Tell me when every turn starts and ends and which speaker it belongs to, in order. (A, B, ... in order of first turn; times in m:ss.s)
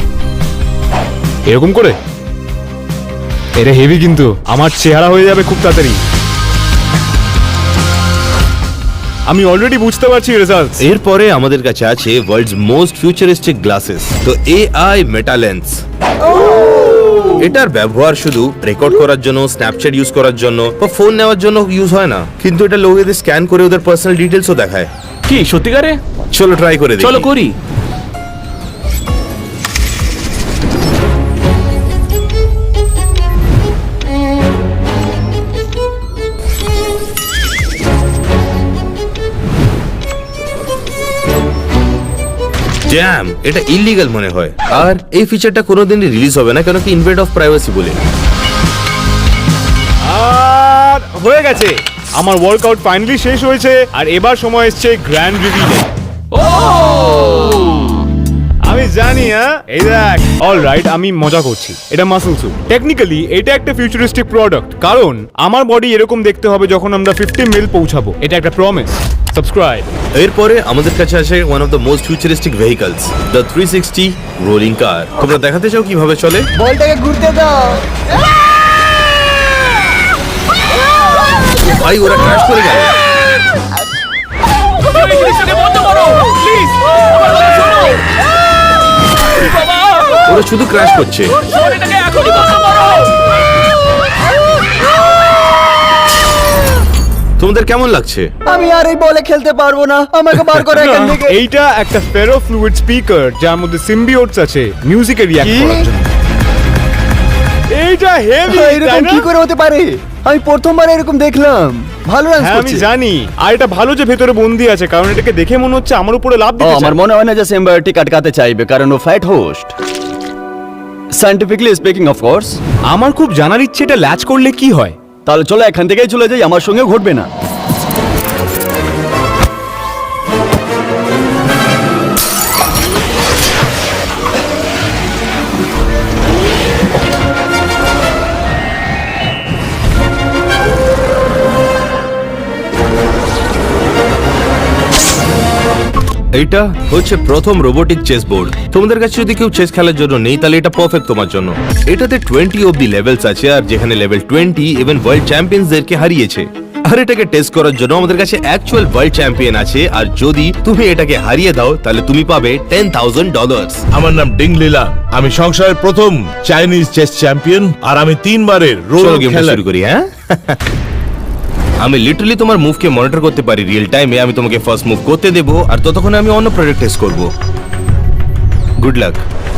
0:01.5-0:02.0 A
0:03.6-0:06.1 A
0:09.3-0:10.8 A
0:10.8-0:15.8 B
0:16.2-0:17.4 C
0:17.3-0:24.9 B
0:25.3-0:26.0 D
0:26.3-0:27.3 B
0:27.0-0:27.5 D
0:42.8-0:48.0 B
0:50.0-0:55.9 A
0:56.3-0:58.0 D
0:58.6-1:09.9 A
1:10.2-1:16.5 B
1:16.6-1:18.0 C
1:21.5-1:23.0 B
1:24.8-1:28.1 D
1:29.1-1:30.4 D
1:30.3-1:31.4 B
1:31.3-1:33.3 D
1:37.4-1:38.3 B
1:38.4-1:41.4 C
1:40.8-1:46.0 A
1:45.4-1:45.9 C
1:47.7-1:49.3 A
1:48.4-1:52.9 C
1:52.4-1:57.0 A
1:56.6-1:59.7 C
2:01.1-2:02.6 C
2:02.9-2:05.0 A
2:05.2-2:07.3 C
2:26.3-2:43.8 B
2:43.9-2:49.6 E
2:49.0-2:50.6 B
2:51.8-2:57.3 B
2:58.8-2:59.2 B